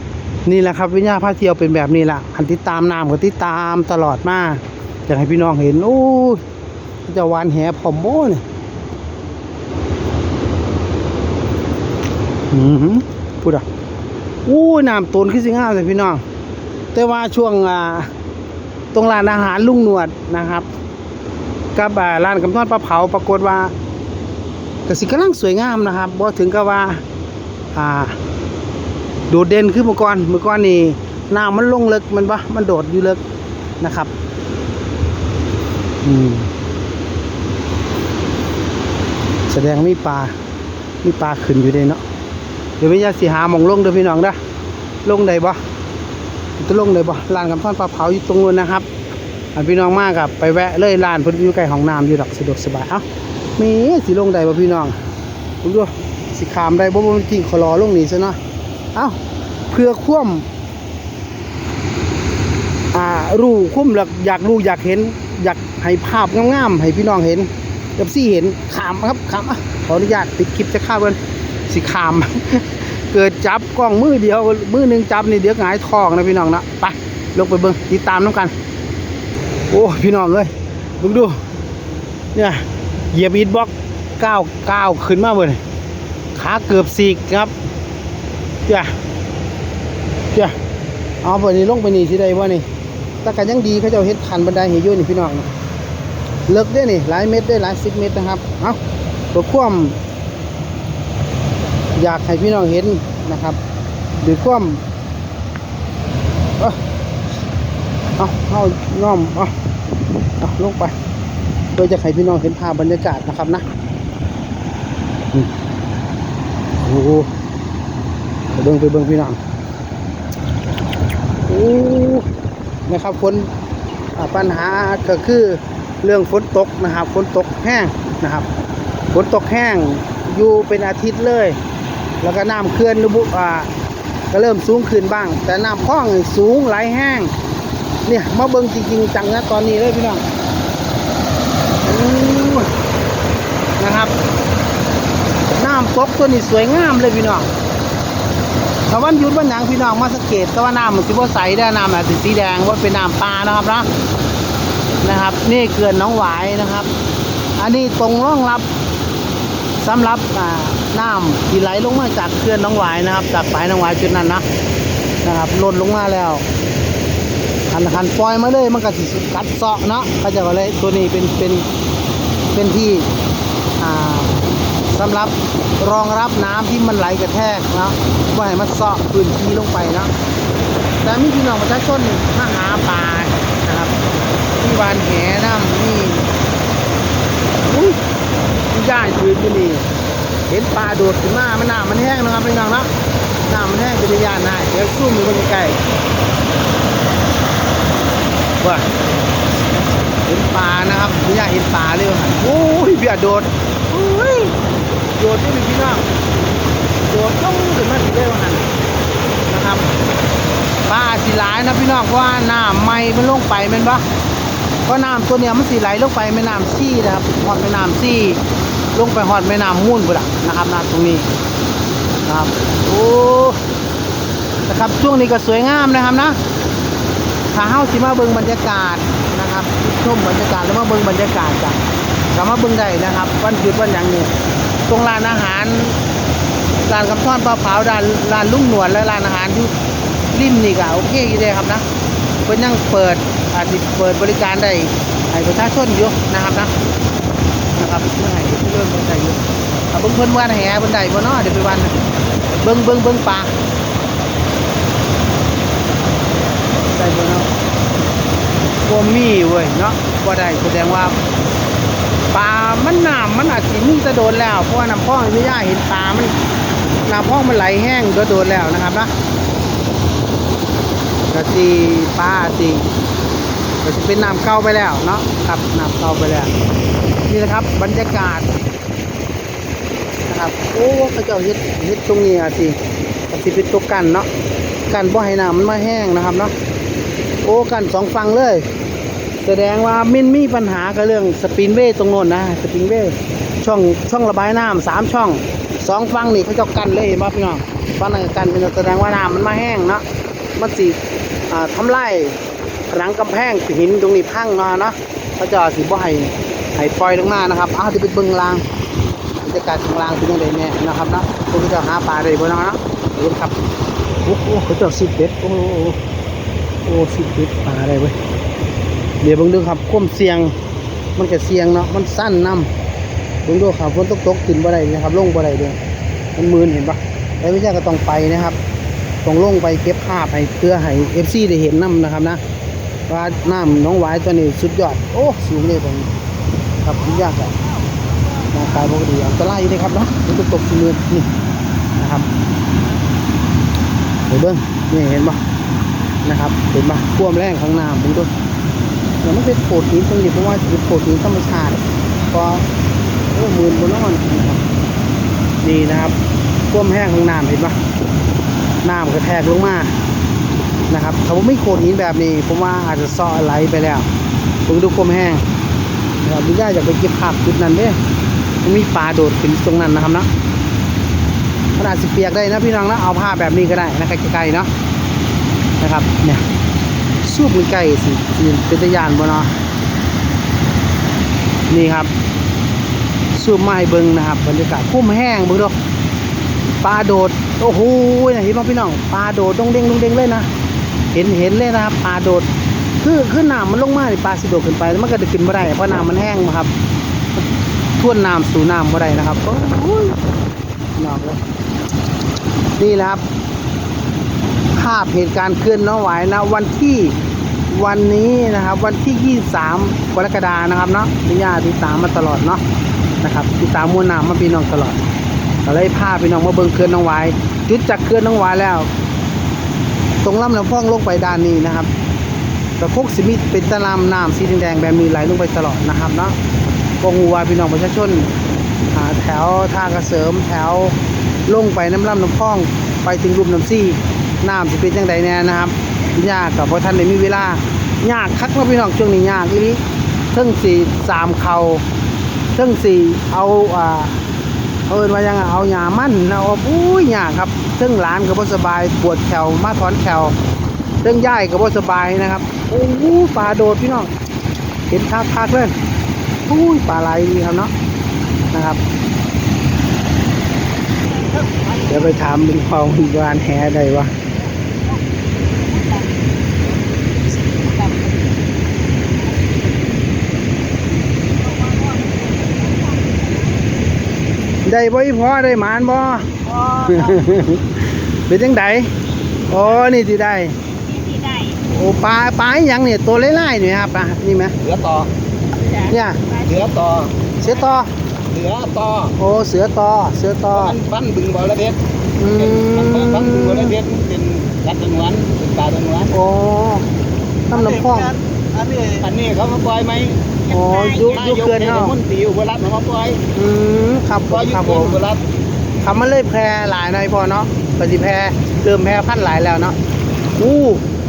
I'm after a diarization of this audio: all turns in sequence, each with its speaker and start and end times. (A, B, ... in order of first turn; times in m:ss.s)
0:00.5-0:06.4 A
0:07.1-0:08.4 A
0:12.5-0:13.6 A
0:14.5-0:16.2 A
0:16.9-0:18.1 A
0:18.9-0:20.7 A
0:21.8-0:23.7 A
0:24.9-0:27.0 A
0:27.7-0:28.2 A
0:29.3-0:33.2 A
0:33.8-0:34.1 A
0:36.0-0:36.5 A
0:39.5-0:40.4 A
0:41.0-0:42.0 A
0:42.8-0:44.4 A
0:45.0-0:45.6 A
0:46.6-0:48.9 A
0:49.6-0:53.0 A
0:53.6-0:55.0 A
0:55.6-0:58.4 A
0:59.7-1:00.5 A
1:02.9-1:11.2 A
1:11.7-1:18.5 A
1:19.7-1:21.4 A
1:22.3-1:25.6 A
1:26.4-1:27.5 A
1:28.7-1:28.9 A
1:31.2-1:32.7 A
1:33.2-1:35.5 A
1:36.5-1:38.8 A
1:39.3-1:40.0 A
1:42.0-1:43.6 A
1:44.2-1:44.8 A
1:48.2-1:49.5 A
1:50.4-1:51.0 A
1:51.8-1:53.7 A
1:56.8-1:57.3 A
1:58.6-1:59.4 A
2:01.5-2:02.3 A
2:02.9-2:03.5 A
2:04.2-2:08.5 A
2:09.1-2:11.6 A
2:12.2-2:13.7 A
2:14.3-2:17.3 A
2:18.1-2:20.2 A
2:21.8-2:22.7 A
2:23.8-2:24.1 A
2:25.6-2:27.5 A
2:28.9-2:33.9 A
2:35.0-2:36.9 A
2:37.6-2:38.7 A
2:39.8-2:44.4 A
2:45.2-2:46.5 A
2:47.7-2:51.7 A
2:52.5-2:53.1 A
2:53.8-3:00.1 A
3:01.0-3:04.0 A
3:04.5-3:06.3 A
3:07.7-3:08.0 A
3:08.7-3:09.9 A
3:10.5-3:12.9 A
3:13.5-3:15.8 A
3:18.6-3:18.9 A
3:20.2-3:24.6 A
3:25.2-3:26.0 A
3:27.1-3:28.7 A
3:29.5-3:29.9 A
3:30.9-3:34.0 A
3:34.9-3:38.4 A
3:38.9-3:41.3 A
3:42.2-3:43.6 A
3:44.7-3:46.4 A
3:47.5-3:51.8 A
3:52.3-3:54.3 A
3:54.9-3:56.0 A
3:56.8-3:59.7 A
4:00.3-4:01.8 A
4:02.4-4:06.8 A
4:07.7-4:12.0 A
4:12.6-4:13.6 A
4:16.9-4:17.5 A
4:18.8-4:21.2 A
4:22.3-4:26.4 A
4:27.0-4:29.1 A
4:31.3-4:32.9 A
4:33.8-4:36.5 A
4:37.3-4:38.5 A
4:40.3-4:42.8 A
4:43.3-4:44.3 A
4:44.9-4:46.5 A
4:47.4-4:48.7 A
4:49.4-5:00.0 A
5:00.6-5:01.0 A
5:01.5-5:02.4 A
5:02.9-5:08.6 A
5:09.4-5:13.6 A
5:14.2-5:16.0 A
5:16.8-5:18.2 A
5:19.2-5:20.5 A
5:21.2-5:22.7 A
5:23.5-5:25.8 A
5:26.4-5:28.6 A
5:29.2-5:32.4 A
5:33.1-5:36.1 A
5:36.8-5:37.6 A
5:38.5-5:41.3 A
5:42.0-5:42.3 A
5:44.3-5:45.4 A
5:46.2-5:48.3 A
5:49.2-5:52.7 A
5:53.3-5:54.6 A
5:55.6-5:56.2 A
5:56.7-5:57.8 A
5:58.8-6:00.0 A
6:00.9-6:04.1 A
6:04.7-6:05.5 A
6:06.2-6:08.0 A
6:08.6-6:10.3 A
6:11.8-6:14.7 A
6:15.8-6:16.4 A
6:17.2-6:19.5 A
6:21.7-6:22.1 A
6:23.3-6:25.8 A
6:26.8-6:30.5 A
6:31.1-6:32.5 A
6:33.0-6:36.7 A
6:38.0-6:40.2 A
6:41.0-6:41.4 A
6:42.8-6:43.3 A
6:44.7-6:47.2 A
6:47.7-6:52.6 A
6:53.2-6:55.0 A
6:55.6-6:58.9 A
7:00.2-7:01.9 A
7:02.8-7:06.4 A
7:07.0-7:08.3 A
7:08.9-7:11.0 A
7:11.5-7:21.8 A
7:22.6-7:24.2 A
7:24.9-7:30.4 A
7:31.0-7:34.1 A
7:34.9-7:35.7 A
7:36.5-7:37.7 A
7:38.5-7:38.8 A
7:41.1-7:42.2 B
7:41.9-7:44.1 A
7:45.6-7:46.0 B
7:47.3-7:48.6 B
7:51.5-7:53.6 C
7:54.6-7:56.3 A
7:56.5-7:56.8 C
7:56.8-7:58.9 A
7:59.5-8:00.6 A
8:00.7-8:01.6 C
8:01.7-8:04.6 A
8:04.6-8:05.1 B
8:05.5-8:06.6 C
8:05.9-8:06.2 A
8:06.4-8:07.2 B
8:07.4-8:07.9 A
8:08.3-8:09.2 B
8:09.2-8:10.8 A
8:10.5-8:16.1 B
8:12.2-8:13.8 A
8:16.1-8:16.9 A
8:17.5-8:18.1 A
8:17.5-8:20.2 B
8:20.5-8:21.3 C
8:20.5-8:22.0 A
8:21.0-8:23.2 B
8:23.4-8:25.0 A
8:24.3-8:25.2 B
8:25.8-8:29.8 A
8:30.4-8:30.8 A